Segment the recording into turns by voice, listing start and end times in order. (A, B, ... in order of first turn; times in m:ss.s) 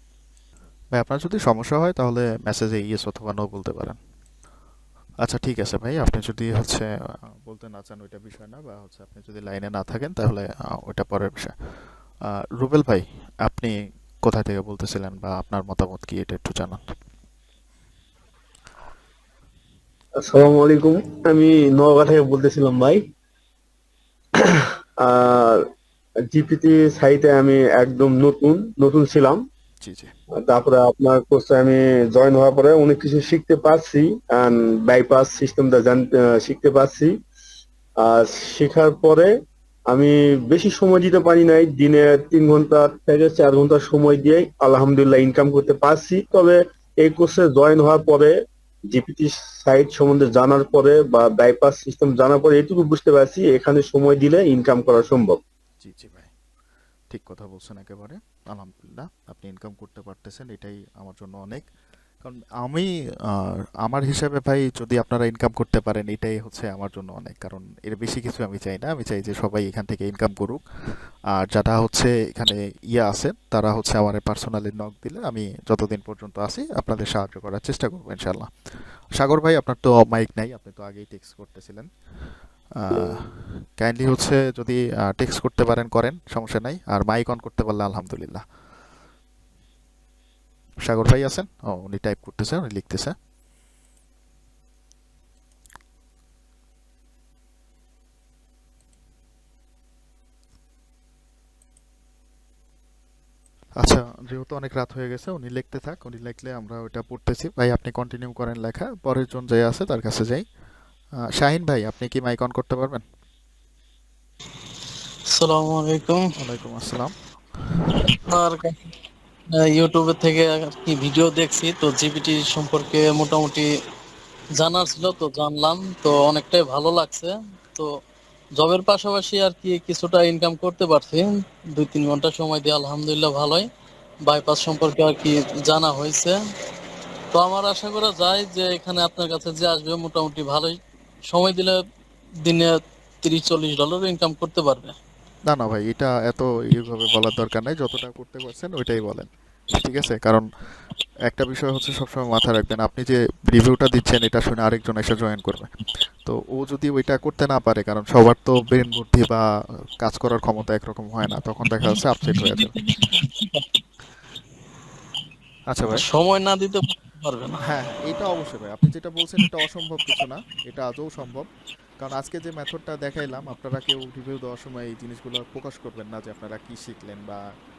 0:00.9-0:04.0 A
0:05.2-0:06.9 A
0:07.4-0:11.5 A
0:12.3-0:16.8 A
0:20.2-0:23.0 B
0:24.4-0:25.6 B
0:26.3-0:29.4 B
0:29.8-0:30.1 A
0:30.4-0:37.2 B
0:38.0-0:39.3 B
0:39.9-0:48.3 B
0:48.9-0:55.4 B
0:55.8-0:56.3 A
0:57.1-1:01.7 A
1:02.2-1:10.6 A
1:11.4-1:18.5 A
1:19.2-1:21.9 A
1:22.8-1:28.4 A
1:22.9-1:23.3 B
1:30.8-1:33.1 A
1:43.8-1:50.4 A
1:51.3-1:53.0 A
1:55.4-1:56.2 C
1:56.4-1:57.1 A
1:58.3-1:58.7 C
1:59.8-2:03.6 C
2:04.6-2:07.8 C
2:08.6-2:11.3 C
2:11.8-2:13.6 C
2:14.3-2:16.3 C
2:17.3-2:20.7 C
2:21.3-2:21.7 C
2:23.2-2:24.9 C
2:25.5-2:30.4 A
2:31.3-2:35.7 A
2:36.2-2:39.4 A
2:40.0-2:42.8 A
2:42.8-2:43.2 C
2:45.7-2:46.1 A
2:46.1-2:47.5 C
2:47.6-2:51.5 A
2:52.0-2:57.4 A